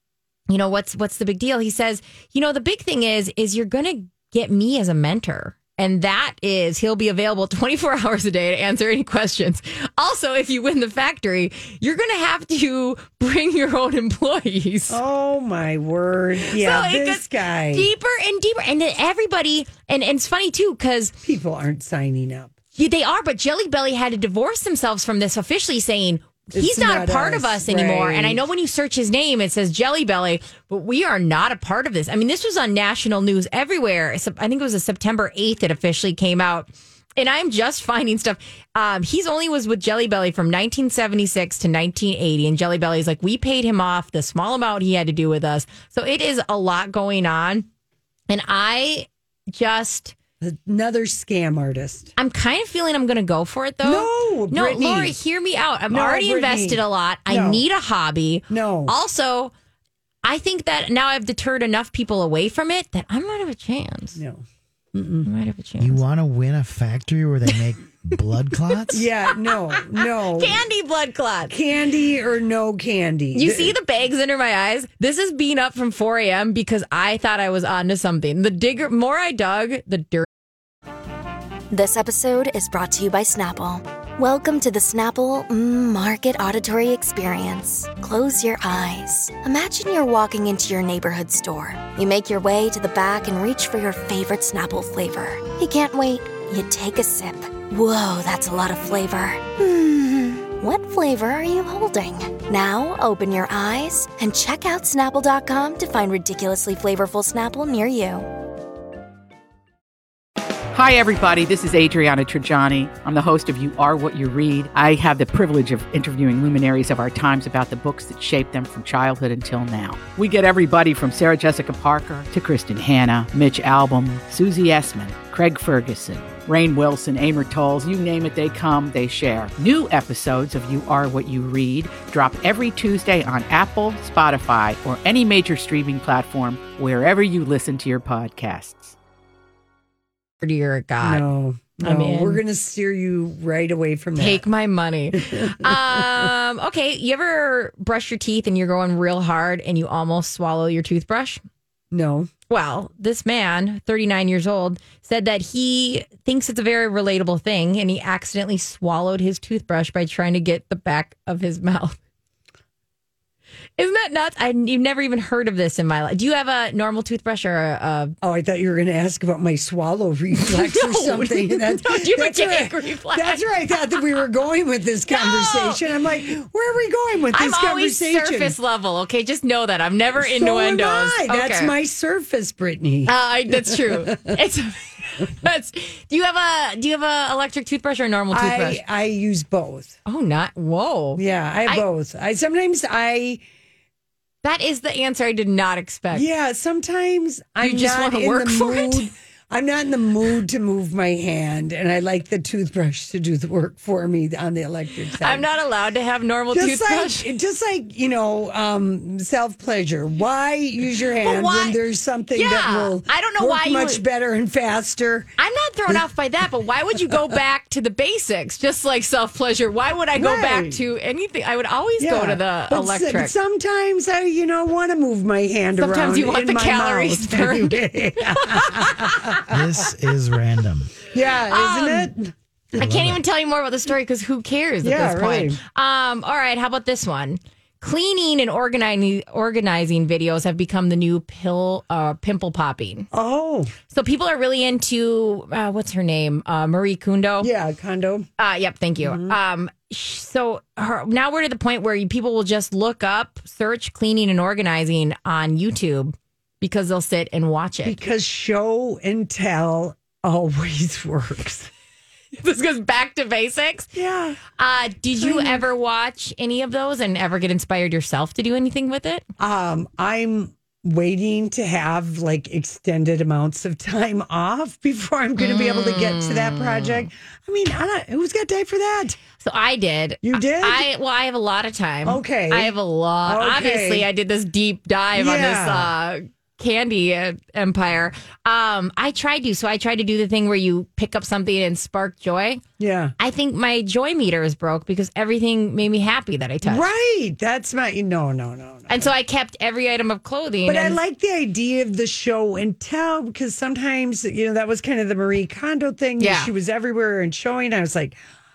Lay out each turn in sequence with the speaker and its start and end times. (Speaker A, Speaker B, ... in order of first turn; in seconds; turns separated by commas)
Speaker A: 0.5-15.0, Speaker B: 14.9-17.9, Speaker A: 16.5-21.1, Speaker B: 21.2-22.5, Speaker A: 22.7-47.7, Speaker B: 26.5-28.4, Speaker A: 48.3-50.1, Speaker B: 50.4-52.1, Speaker A: 52.2-59.5, Speaker B: 53.8-55.1, Speaker B: 55.9-57.6, Speaker B: 58.5-59.0, Speaker A: 60.2-64.2, Speaker B: 64.2-65.3, Speaker A: 65.2-66.0, Speaker C: 65.8-69.0, Speaker B: 68.9-70.6, Speaker A: 70.3-71.5, Speaker B: 71.5-73.7, Speaker A: 73.3-80.2, Speaker D: 81.7-108.3, Speaker E: 110.7-138.9, Speaker A: 140.4-141.2, Speaker B: 141.0-144.4, Speaker A: 141.8-142.4, Speaker A: 144.2-151.4, Speaker B: 145.2-146.0, Speaker B: 151.9-152.3, Speaker A: 152.5-162.0, Speaker A: 163.8-168.1, Speaker B: 168.2-178.5, Speaker A: 170.4-174.0, Speaker A: 175.1-175.8, Speaker A: 177.3-181.7, Speaker B: 180.2-184.3, Speaker A: 183.1-188.8, Speaker B: 188.3-189.9, Speaker A: 190.1-191.8, Speaker B: 191.2-193.4, Speaker A: 194.4-196.2, Speaker B: 196.1-205.4, Speaker A: 197.6-199.1, Speaker A: 205.2-207.3, Speaker B: 206.5-215.3, Speaker A: 211.2-211.8, Speaker A: 212.3-214.0, Speaker A: 215.4-223.3, Speaker B: 220.1-220.8, Speaker B: 222.0-229.5, Speaker A: 225.8-227.8, Speaker A: 228.3-229.2, Speaker C: 229.5-230.9, Speaker B: 231.1-232.3, Speaker A: 231.5-232.1, Speaker A: 232.8-243.1, Speaker C: 232.8-233.2, Speaker B: 234.8-235.6, Speaker B: 243.1-243.7, Speaker A: 243.9-247.5, Speaker B: 247.4-248.3, Speaker A: 248.4-258.0, Speaker B: 249.0-249.3, Speaker B: 257.8-261.7, Speaker A: 262.4-263.9, Speaker B: 263.9-264.4, Speaker A: 264.6-269.2, Speaker B: 265.1-265.6, Speaker B: 269.4-279.2, Speaker A: 275.4-277.1, Speaker A: 279.4-292.6, Speaker B: 280.2-280.9, Speaker B: 282.0-282.7, Speaker B: 283.2-284.1, Speaker B: 285.1-285.9, Speaker B: 292.8-293.1, Speaker A: 293.2-296.9, Speaker B: 296.6-299.1, Speaker A: 298.9-301.0, Speaker B: 300.6-308.2, Speaker A: 306.2-306.5